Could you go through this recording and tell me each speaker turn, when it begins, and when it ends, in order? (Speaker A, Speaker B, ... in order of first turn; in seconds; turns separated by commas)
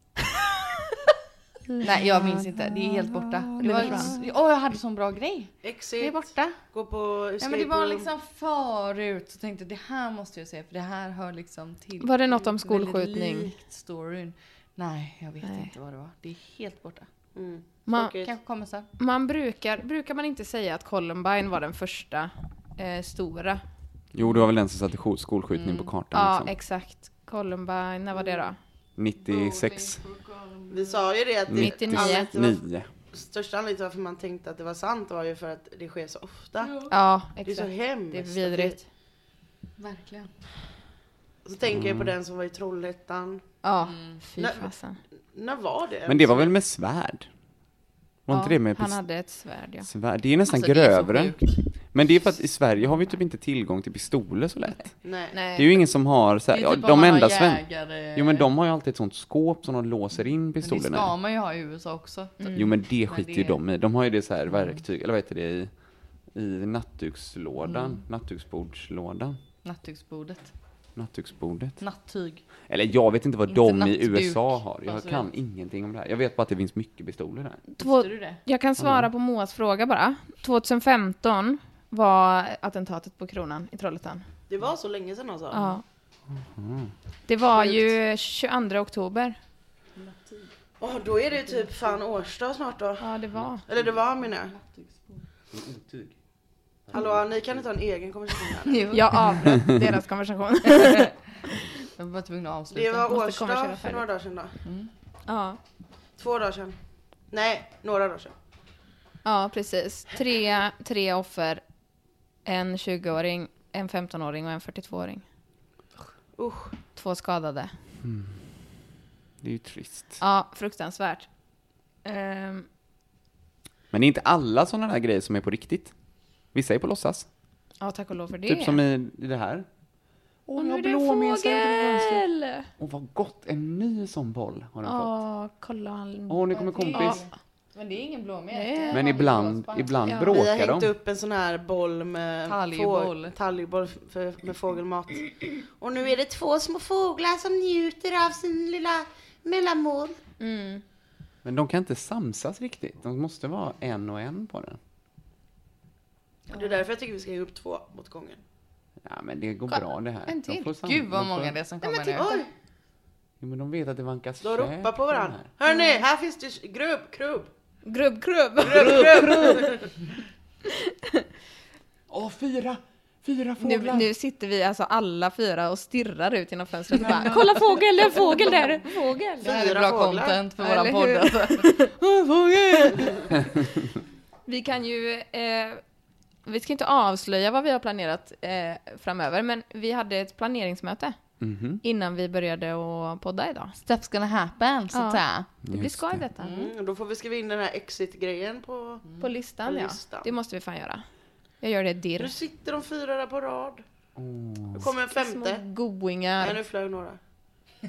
Speaker A: 1.8-2.4, Speaker B: 1.8-6.6, Speaker A: 3.6-4.2, Speaker C: 3.6-4.1, Speaker D: 5.6-8.1, Speaker B: 7.4-17.1, Speaker A: 12.0-13.6, Speaker A: 15.4-15.7, Speaker D: 17.4-18.3, Speaker A: 17.9-18.1, Speaker B: 18.2-18.9, Speaker A: 19.0-23.6, Speaker C: 24.1-26.5, Speaker B: 25.5-25.9, Speaker A: 26.1-28.6, Speaker D: 28.2-28.4, Speaker C: 29.0-30.0, Speaker B: 29.2-31.1, Speaker D: 30.7-36.9, Speaker C: 31.5-32.9, Speaker A: 31.5-32.3, Speaker B: 36.6-36.9, Speaker A: 36.9-38.8, Speaker D: 37.4-38.8, Speaker B: 39.8-40.3, Speaker D: 41.5-43.4, Speaker C: 41.7-42.1, Speaker A: 43.6-45.0, Speaker B: 43.9-44.2, Speaker D: 44.4-44.7, Speaker D: 45.3-46.5, Speaker C: 46.1-47.3, Speaker C: 48.3-49.0, Speaker A: 48.3-49.9, Speaker C: 49.8-55.0, Speaker B: 50.5-51.6, Speaker D: 55.0-55.4, Speaker A: 55.3-55.7, Speaker C: 55.5-61.1, Speaker B: 56.5-58.5, Speaker B: 60.6-63.6, Speaker A: 62.4-62.8, Speaker C: 62.5-65.7, Speaker B: 64.5-64.8, Speaker C: 66.3-69.4, Speaker B: 67.7-68.0, Speaker B: 69.6-70.5, Speaker C: 71.0-71.8, Speaker B: 71.8-72.5, Speaker C: 72.7-77.6, Speaker B: 73.5-75.3, Speaker A: 77.7-84.2, Speaker B: 77.8-78.4, Speaker C: 78.8-79.1, Speaker D: 84.5-85.8, Speaker A: 85.5-85.8, Speaker C: 86.3-86.9, Speaker A: 87.3-89.4, Speaker B: 90.0-90.5, Speaker D: 90.8-94.5, Speaker A: 93.0-93.6, Speaker B: 94.3-95.2, Speaker C: 95.5-96.1, Speaker C: 96.9-97.5, Speaker D: 96.9-98.9, Speaker B: 98.7-99.3, Speaker A: 98.9-101.6, Speaker C: 99.4-99.8, Speaker B: 100.7-101.1, Speaker B: 102.0-103.1, Speaker D: 102.7-104.6, Speaker A: 103.1-104.1, Speaker B: 104.7-104.9, Speaker A: 105.3-105.6, Speaker D: 106.2-106.8, Speaker D: 107.3-108.3, Speaker A: 109.2-111.6, Speaker A: 112.5-115.2, Speaker D: 116.4-116.7, Speaker A: 117.0-117.7, Speaker C: 118.0-118.6, Speaker C: 119.4-120.2, Speaker A: 120.2-121.3, Speaker A: 122.0-122.7, Speaker C: 123.9-125.9, Speaker C: 126.5-127.3, Speaker A: 127.8-128.8, Speaker C: 128.5-129.7, Speaker C: 130.5-135.2, Speaker A: 130.6-132.7, Speaker A: 134.8-137.2, Speaker C: 136.3-137.2, Speaker B: 136.5-140.0, Speaker A: 138.5-139.0, Speaker C: 138.9-140.9, Speaker A: 140.1-140.3, Speaker D: 140.3-150.2, Speaker B: 142.5-143.4, Speaker A: 150.4-150.8, Speaker C: 151.4-154.8, Speaker B: 156.5-156.8, Speaker D: 156.5-158.4, Speaker C: 159.0-161.6, Speaker A: 159.7-160.7, Speaker B: 160.8-162.3, Speaker D: 161.8-162.5, Speaker C: 163.4-165.4, Speaker D: 164.4-167.5, Speaker A: 165.7-165.9, Speaker A: 167.9-169.9, Speaker D: 168.6-169.9, Speaker C: 168.7-169.7, Speaker A: 170.8-171.2, Speaker C: 172.1-174.1, Speaker A: 173.6-179.5, Speaker C: 177.0-177.5, Speaker D: 179.4-180.4, Speaker B: 179.4-183.1, Speaker A: 180.6-183.3, Speaker A: 184.5-185.8, Speaker A: 186.4-191.2, Speaker C: 191.4-191.8, Speaker A: 191.8-193.8, Speaker B: 193.8-195.5, Speaker A: 194.9-196.6, Speaker C: 195.6-196.2, Speaker B: 196.4-196.7, Speaker D: 196.4-199.1, Speaker A: 199.2-201.0, Speaker D: 199.6-200.3, Speaker A: 201.6-202.4, Speaker D: 202.2-203.8, Speaker C: 204.2-204.9, Speaker D: 204.7-205.6, Speaker A: 205.1-206.6, Speaker D: 206.4-207.2